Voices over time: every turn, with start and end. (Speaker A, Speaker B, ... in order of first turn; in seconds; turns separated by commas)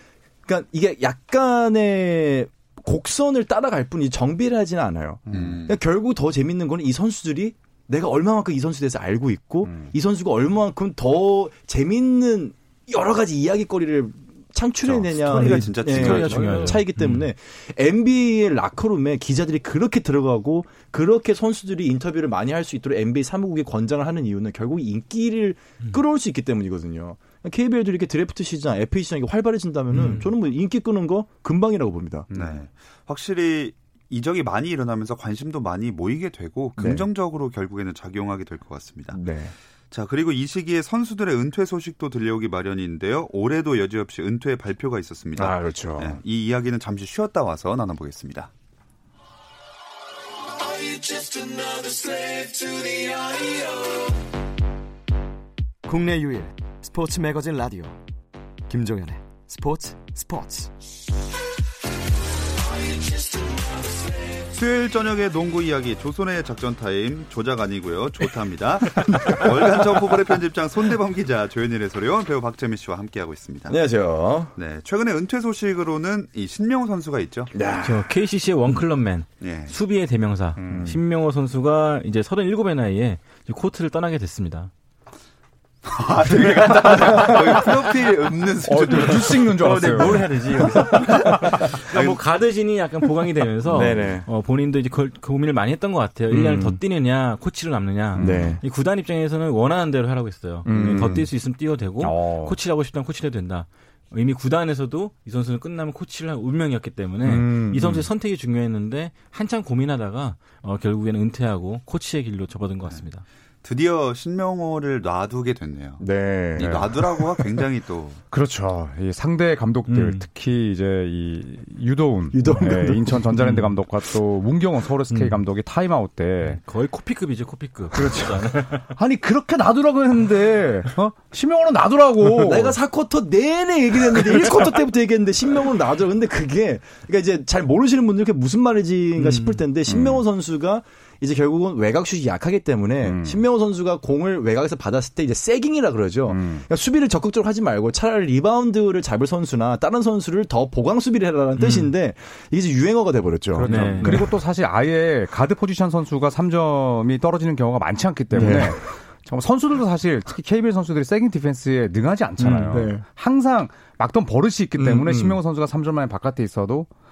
Speaker A: 0.5-32.3, Speaker B: 5.3-5.6, Speaker C: 5.3-5.8, Speaker B: 9.7-9.9, Speaker C: 14.8-16.8, Speaker D: 15.4-17.3, Speaker D: 29.9-30.3, Speaker C: 32.3-39.2, Speaker A: 36.8-37.1, Speaker A: 39.1-39.5, Speaker C: 39.9-48.5, Speaker A: 45.4-46.2, Speaker E: 50.8-54.0, Speaker E: 55.9-58.0, Speaker E: 58.7-60.7, Speaker C: 64.4-73.8, Speaker A: 73.7-74.5, Speaker C: 74.5-77.5, Speaker A: 77.5-78.1, Speaker D: 77.8-84.7, Speaker C: 79.4-79.8, Speaker B: 80.6-81.0, Speaker A: 80.7-81.0, Speaker C: 85.8-89.5, Speaker D: 87.1-87.7, Speaker B: 88.6-90.3, Speaker D: 88.9-113.2, Speaker C: 91.0-92.2, Speaker A: 93.7-94.3, Speaker A: 96.3-96.8, Speaker B: 98.2-98.6, Speaker A: 98.2-98.6, Speaker A: 100.7-101.3, Speaker B: 100.8-101.1, Speaker B: 102.0-102.6, Speaker A: 107.2-108.1, Speaker C: 113.6-116.0, Speaker A: 116.0-117.3, Speaker C: 116.6-118.2, Speaker B: 116.6-117.0, Speaker B: 118.3-126.6, Speaker D: 119.9-120.3, Speaker A: 122.3-123.2, Speaker D: 123.3-123.7, Speaker D: 125.1-125.4, Speaker D: 126.4-128.9, Speaker B: 127.9-132.8, Speaker A: 132.2-154.3, Speaker D: 139.2-139.6, Speaker B: 139.9-140.2, Speaker B: 143.0-143.4, Speaker B: 146.3-146.6, Speaker D: 151.6-151.9, Speaker B: 153.5-166.9, Speaker D: 153.6-154.3, Speaker A: 158.3-158.8, Speaker A: 162.4-163.0, Speaker D: 162.4-162.7, Speaker A: 164.8-165.4